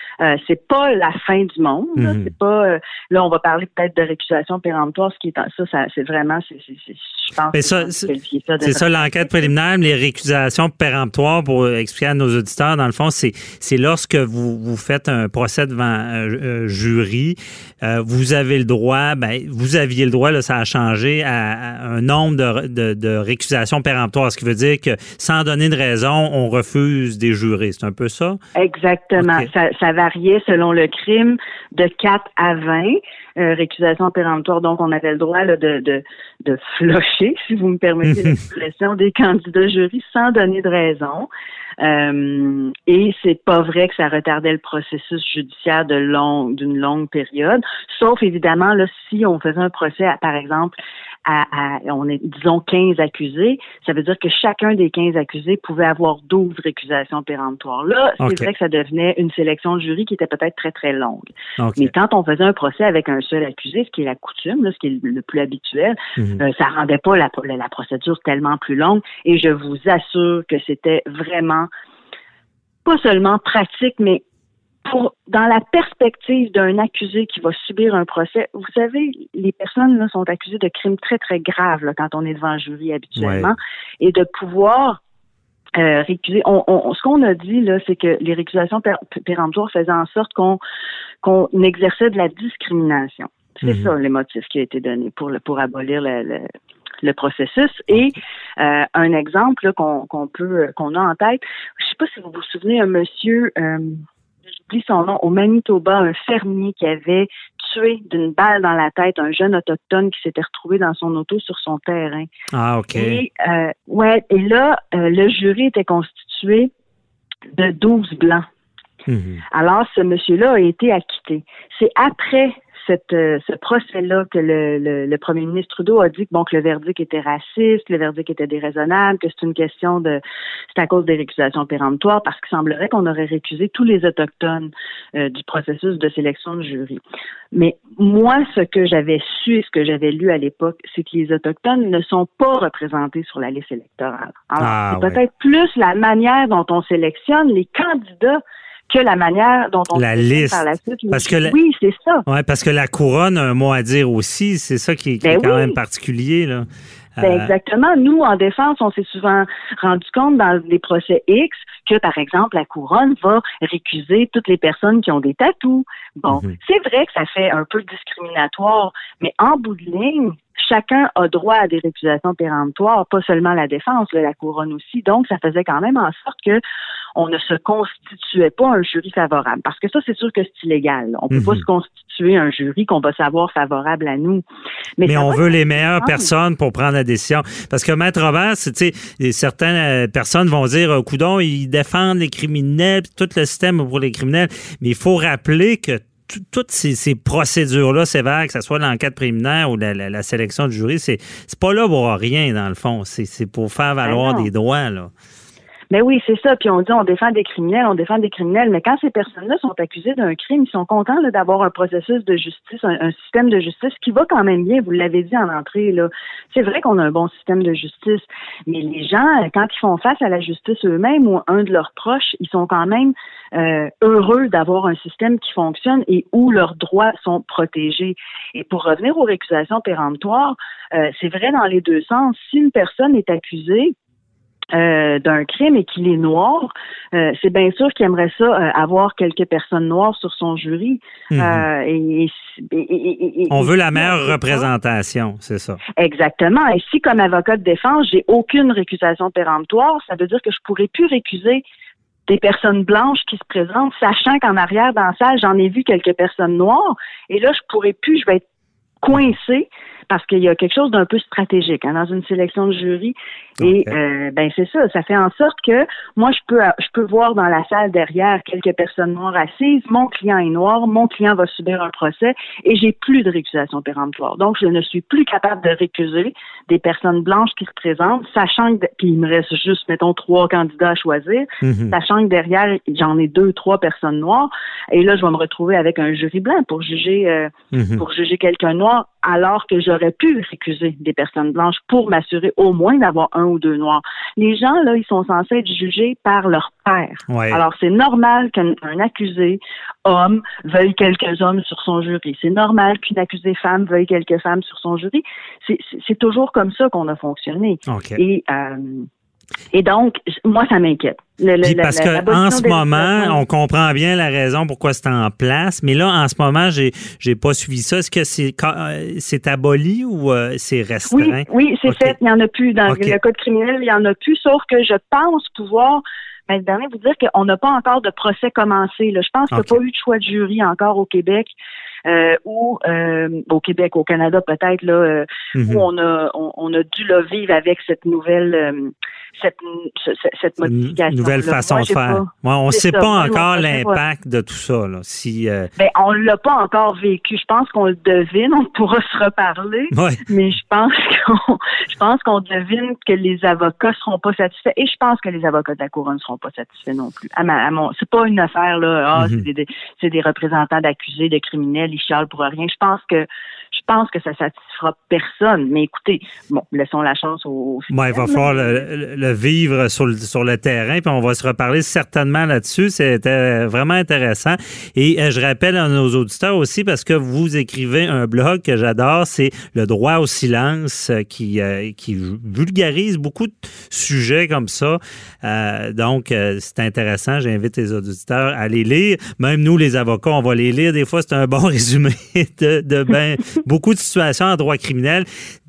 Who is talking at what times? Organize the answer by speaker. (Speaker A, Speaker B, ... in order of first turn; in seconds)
Speaker A: 0.2-9.5, 28.6-41.3, 41.8-71.7, 72.8-74.2, 74.8-85.0, 85.8-90.6, 91.2-96.5, 97.0-104.0, 104.7-112.3, 112.9-116.7, 117.5-118.5, 119.5-130.2, 130.7-137.0, 137.5-152.2, 155.2-155.8, 157.2-176.6, 177.2-184.4, 185.0-186.3, 204.0-204.5, 205.9-233.9, 234.7-244.7, 246.0-251.6, 252.3-258.4, 259.0-309.1, 309.7-313.4, 321.1-331.5, 332.1-344.0, 345.8-368.8
Speaker B: 2.0-2.3, 7.5-8.1, 8.6-28.4, 29.2-29.5, 38.1-38.4, 58.2-58.5, 61.6-61.9, 66.2-66.4, 83.2-83.5, 93.6-93.9, 112.5-113.2, 119.1-119.4, 144.6-145.2, 149.9-151.5, 152.3-156.7, 157.2-157.5, 166.3-166.6, 181.3-181.6, 185.1-205.1, 241.3-241.7, 243.5-245.8, 263.6-263.9, 281.6-281.9, 287.7-288.0, 297.3-297.6, 307.9-308.2, 311.6-322.1, 322.9-323.2, 329.5-329.8, 335.5-335.9, 340.6-345.7, 349.9-350.2, 359.2-359.4, 367.9-395.2